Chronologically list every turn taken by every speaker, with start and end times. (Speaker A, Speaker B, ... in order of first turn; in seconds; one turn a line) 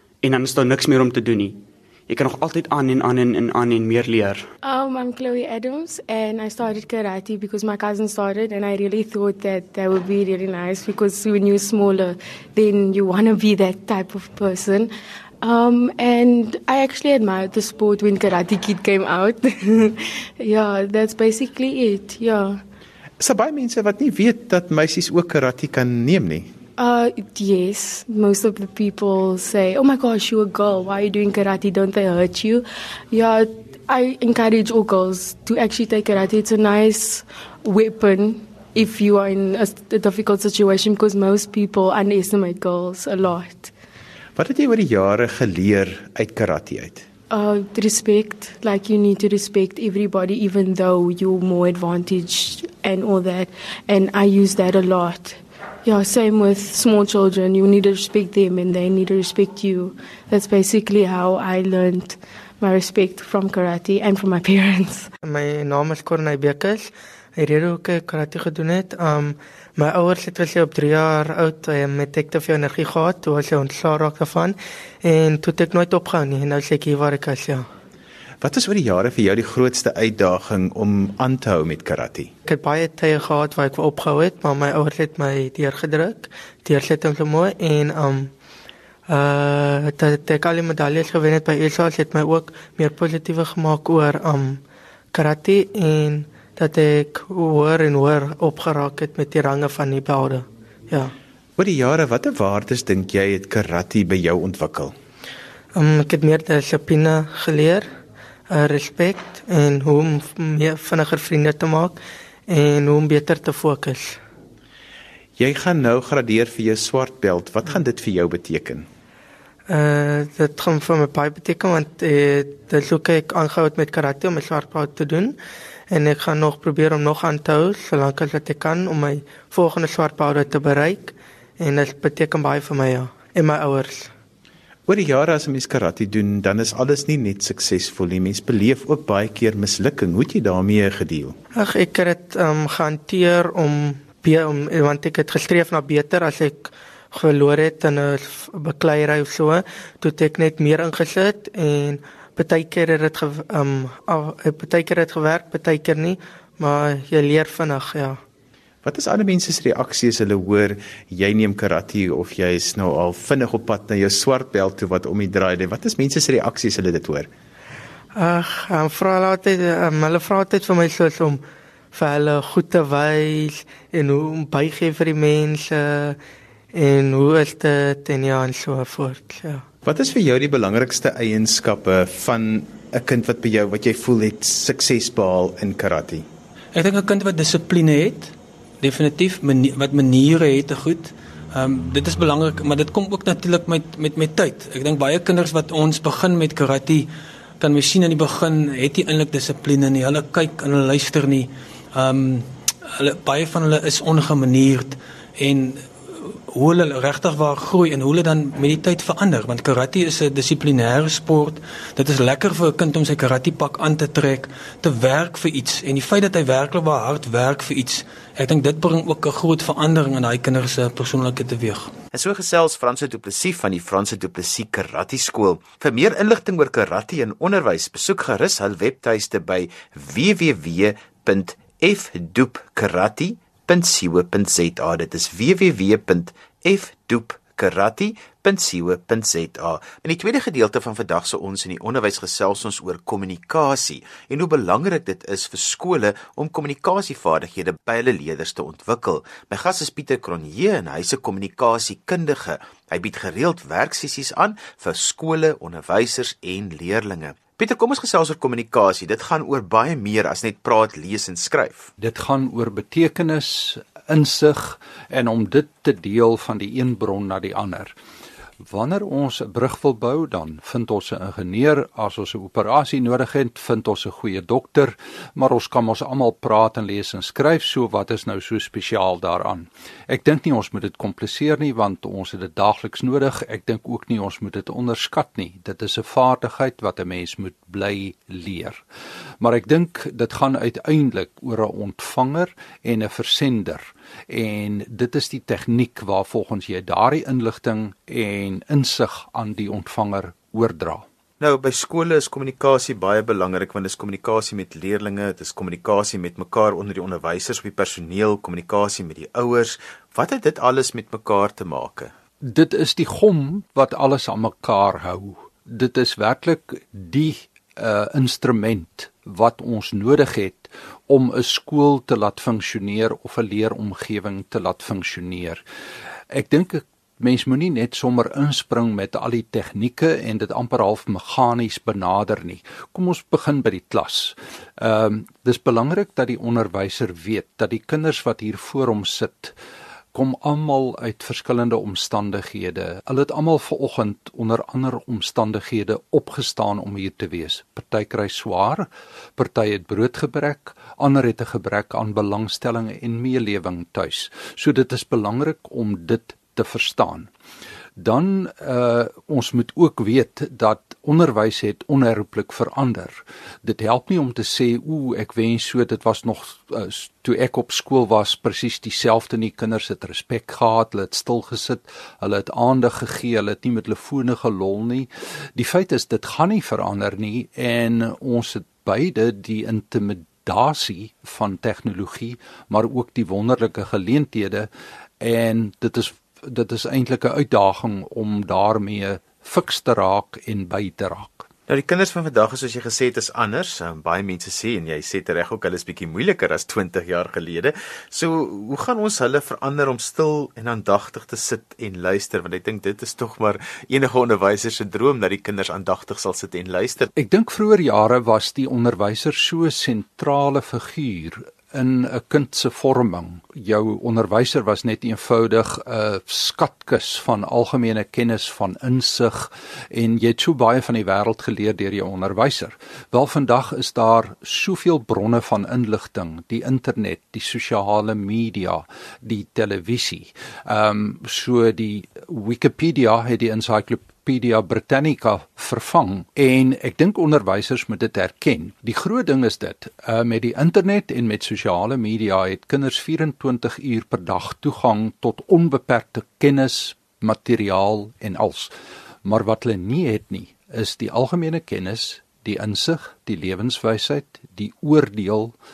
Speaker A: 0.2-4.5
Speaker B: 4.6-14.9
Speaker B: 15.4-22.6
Speaker C: 23.2-26.5
Speaker B: 26.8-43.7
Speaker C: 44.4-47.0
Speaker B: 47.3-65.1
Speaker D: 65.2-77.7
Speaker C: 78.4-82.3
Speaker D: 82.5-88.3
Speaker D: 89.1-94.6
Speaker D: 95.1-101.1
Speaker C: 101.6-104.9
Speaker D: 105.8-107.9
Speaker D: 108.5-112.0
Speaker D: 112.5-114.2
Speaker C: 115.4-118.9
Speaker D: 119.7-125.4
Speaker D: 125.9-134.1
Speaker C: 134.9-141.3
Speaker D: 141.6-158.2
Speaker C: 158.8-167.3
Speaker D: 168.2-171.4
Speaker D: 171.9-176.2
Speaker D: 176.7-179.6
Speaker C: 179.8-186.3
Speaker E: 186.7-197.1
Speaker E: 197.6-221.9
Speaker C: 222.1-261.9
Speaker F: 262.0-267.9
Speaker F: 268.6-288.8
Speaker F: 289.4-301.1
Speaker C: 301.4-312.1
Speaker F: 312.4-325.6
Speaker F: 326.3-339.6
Speaker F: 340.1-357.3
Speaker F: 358.0-384.7
Speaker F: 385.2-391.5
Speaker C: 391.7-407.1
Speaker F: 407.1-448.7
Speaker F: 449.2-455.6